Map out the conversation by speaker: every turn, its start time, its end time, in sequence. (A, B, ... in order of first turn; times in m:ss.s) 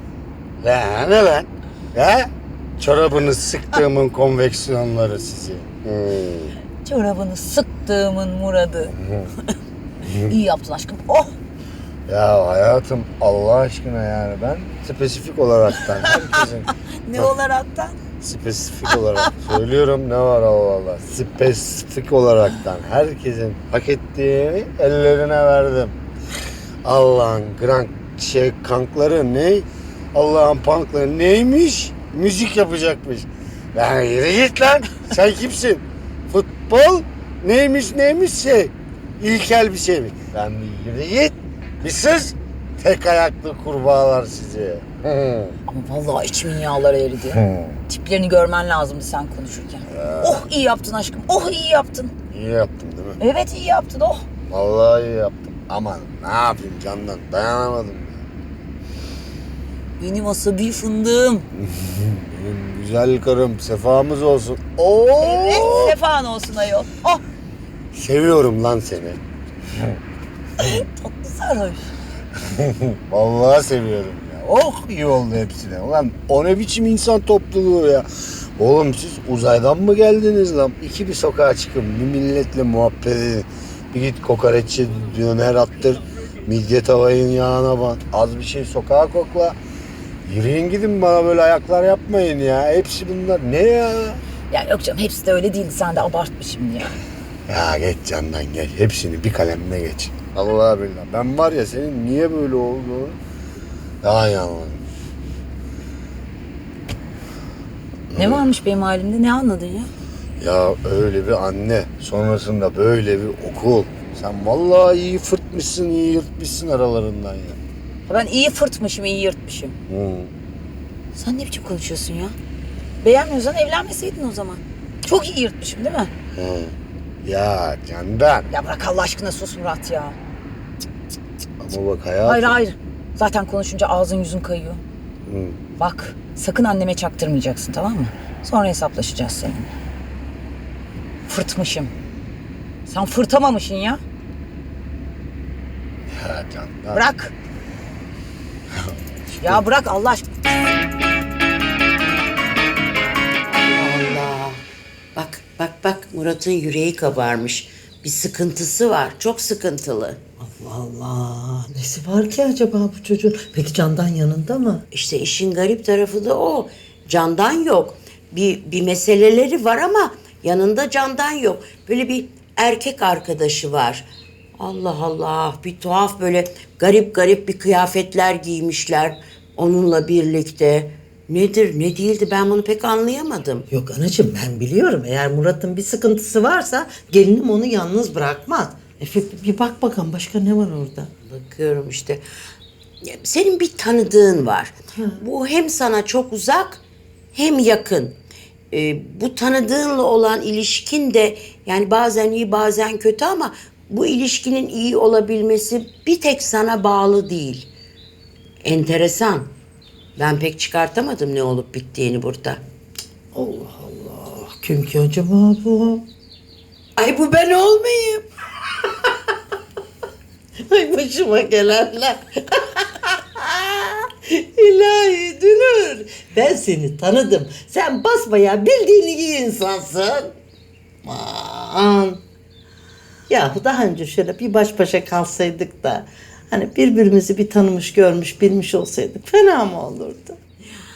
0:00.6-0:06.6 A
0:06.8-0:08.9 B
0:08.9-0:09.3 A
0:10.1-0:10.3 A
0:10.3-0:11.3 B
0:12.1-0:17.3 A
0:15.8-0:16.4 B
0:17.0-0:18.0 B
0:18.2-0:26.0 A
0:18.8-0:19.5 B
0:26.8-0:45.6 A
0:45.7-0:52.1 B
0:47.3-0:47.8 A
0:49.9-0:50.4 A
0:52.3-0:53.2 A
0:53.2-0:54.2 B
0:54.5-0:58.2 A
1:00.0-1:01.5 B
1:01.6-1:05.9 A
1:05.2-1:07.2 B
1:07.9-1:09.2 A
1:10.6-1:11.9 B
1:12.5-1:18.0 A
1:18.6-1:29.6 A
1:30.2-1:34.2 A
1:34.5-1:37.0 B
1:37.5-1:43.2 A
1:44.0-1:44.8 A
1:48.1-1:48.4 A
1:48.1-1:49.9 B
1:50.4-1:57.6 A
1:58.1-1:59.8 B
1:59.9-2:00.3 A
2:01.1-2:02.3 B
2:03.0-2:06.1 B
2:06.3-2:08.5 A
2:08.5-2:10.2 B
2:11.6-2:12.6 A
2:12.2-2:14.8 B
2:15.2-2:15.6 A
2:15.8-2:19.7 B
2:21.3-2:21.9 B
2:22.9-2:24.0 B
2:26.1-2:27.0 A
2:26.9-2:27.3 B
2:28.7-2:29.6 A
2:29.4-2:30.3 B
2:33.7-2:34.6 C
2:35.1-2:40.2 C
2:40.4-2:44.8 D
2:44.9-2:54.0 C
2:54.6-3:03.7 C
3:03.7-3:11.1 D
3:11.2-3:12.2 C
3:13.0-3:16.8 C
3:14.9-3:15.2 D
3:17.3-3:18.2 C
3:18.7-3:27.7 C
3:28.6-3:29.5 C
3:30.2-3:32.6 C
3:33.3-3:36.1 D
3:37.0-3:38.3 C
3:40.7-3:50.3 D
3:51.0-3:52.2 D
3:53.3-4:00.4 D